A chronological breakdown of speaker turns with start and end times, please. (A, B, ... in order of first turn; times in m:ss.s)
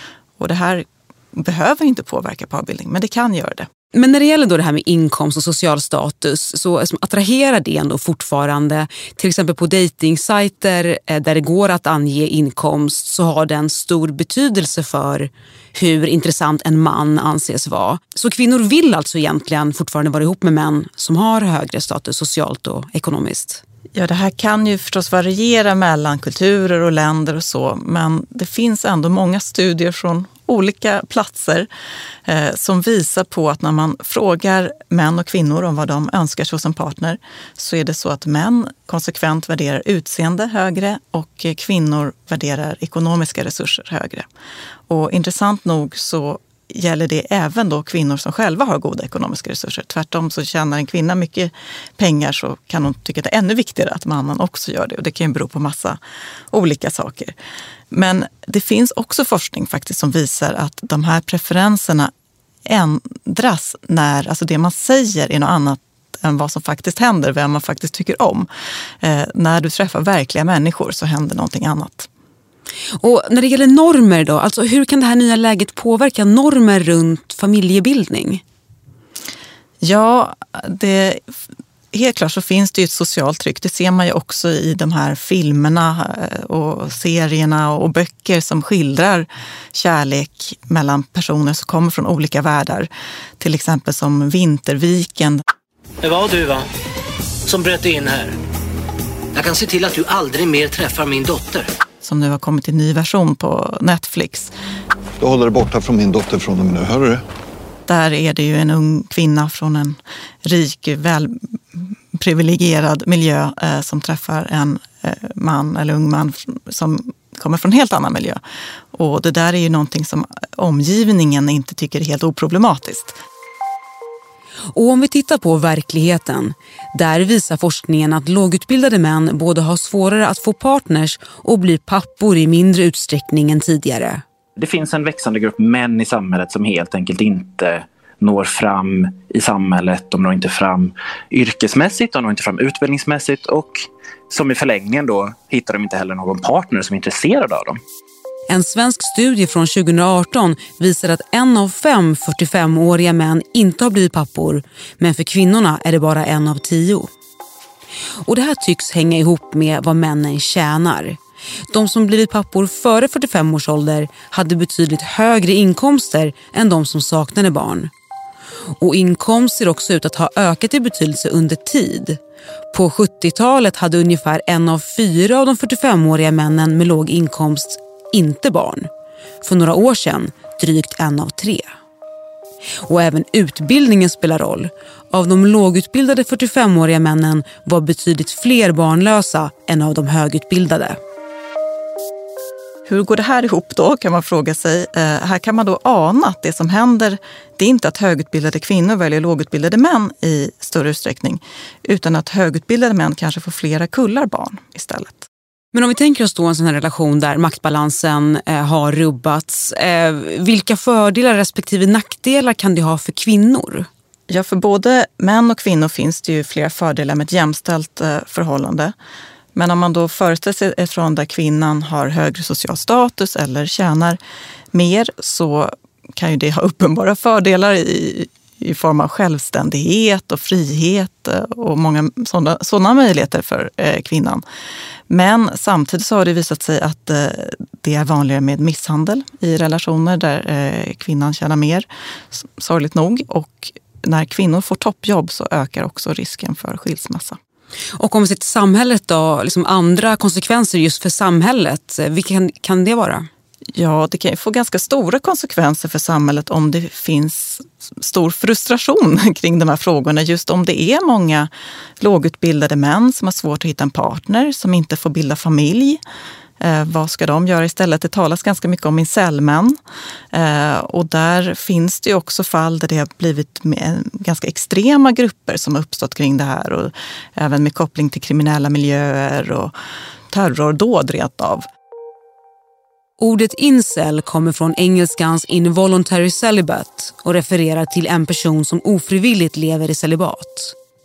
0:00.4-0:03.7 A
0:03.9-0:23.6 B
0:23.9-0:31.7 A
0:32.2-0:44.3 A
0:44.9-0:56.0 A
0:56.5-0:57.3 A
0:57.9-1:02.1 A
1:02.6-1:08.5 A
1:09.0-1:12.1 A
1:13.0-1:18.4 B
1:19.8-1:21.2 A
1:21.9-1:32.9 A
1:33.4-1:35.4 A
1:36.0-1:36.6 C
1:37.5-1:38.3 C
1:39.3-1:41.7 C
1:42.0-1:44.5 A
1:45.2-1:47.2 D
1:47.9-1:58.4 A
1:58.9-2:03.2 A
2:04.7-2:14.2 B
2:14.6-2:27.8 E
2:28.5-2:37.1 B
2:38.2-2:41.2 B
2:41.7-2:47.9 B
2:48.8-2:52.2 B
2:52.7-2:58.9 B
2:59.4-3:01.7 B
3:02.8-3:11.0 B
3:12.9-3:25.3 A
3:25.7-3:33.9 B
3:34.3-3:38.9 A
3:39.5-3:44.2 A
3:44.7-3:54.4 A
3:55.1-4:07.4 A
4:08.0-4:13.3 B
4:13.7-4:26.0 A
4:26.6-4:29.8 A
4:30.3-4:39.7 A
4:40.3-4:41.7 A
4:43.2-4:50.7 B